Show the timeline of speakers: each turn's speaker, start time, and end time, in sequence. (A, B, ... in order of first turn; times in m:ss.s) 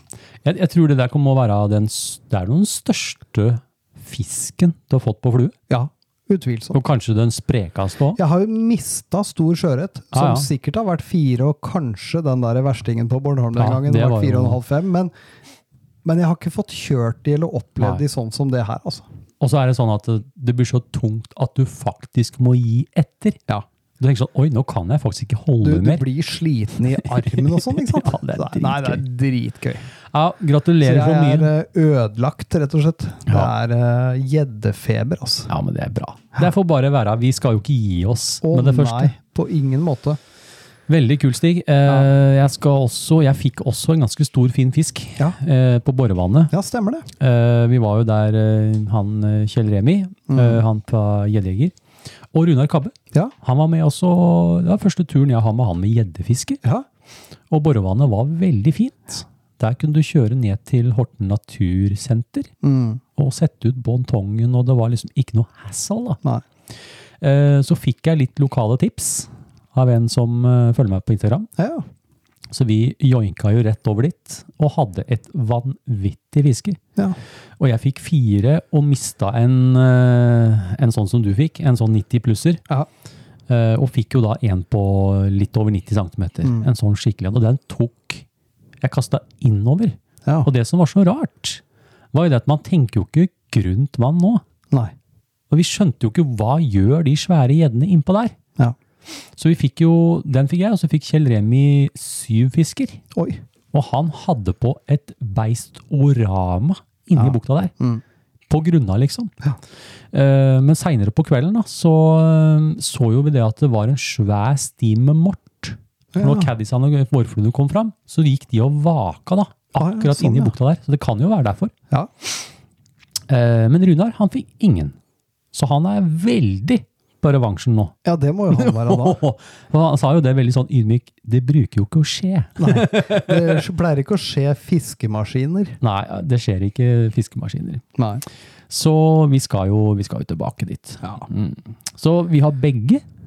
0:00.4-0:05.5 A
0:05.7-0:06.8 B
0:06.7-0:08.2 A
0:08.2-0:15.1 B
0:10.1-0:10.5 A
0:13.6-0:14.6 A
0:16.0-0:19.0 B
0:19.4-0:23.4 A
0:24.0-0:26.0 A
0:25.6-0:29.8 B
0:27.0-0:29.0 A
0:30.1-0:31.5 A
0:30.8-0:35.5 B
0:35.5-0:39.1 A
0:38.4-0:40.2 B
0:40.9-0:46.5 A
0:46.5-0:47.1 B
0:47.2-0:51.7 A
0:50.3-0:50.6 B
0:52.3-0:56.6 A
0:57.5-1:02.5 A
1:02.6-1:03.0 B
1:03.2-1:06.2 A
1:07.2-1:11.5 A
1:11.6-1:11.8 B
1:12.5-1:16.8 A
1:17.6-1:22.6 A
1:23.5-1:28.2 A
1:26.4-1:26.7 B
1:28.8-1:31.6 A
1:32.1-1:34.4 A
1:35.5-1:38.3 A
1:39.3-1:43.0 A
1:43.1-1:43.4 B
1:43.7-1:47.7 A
1:47.2-1:48.0 B
1:48.5-1:49.3 A
1:50.1-2:01.7 A
1:56.1-1:56.5 B
1:59.8-2:00.5 B
2:03.3-2:05.0 A
2:05.5-2:07.9 A
2:08.0-2:09.2 B
2:08.5-2:13.6 A
2:12.6-2:15.8 B
2:15.8-2:17.8 A
2:18.0-2:18.2 B
2:18.7-2:23.0 A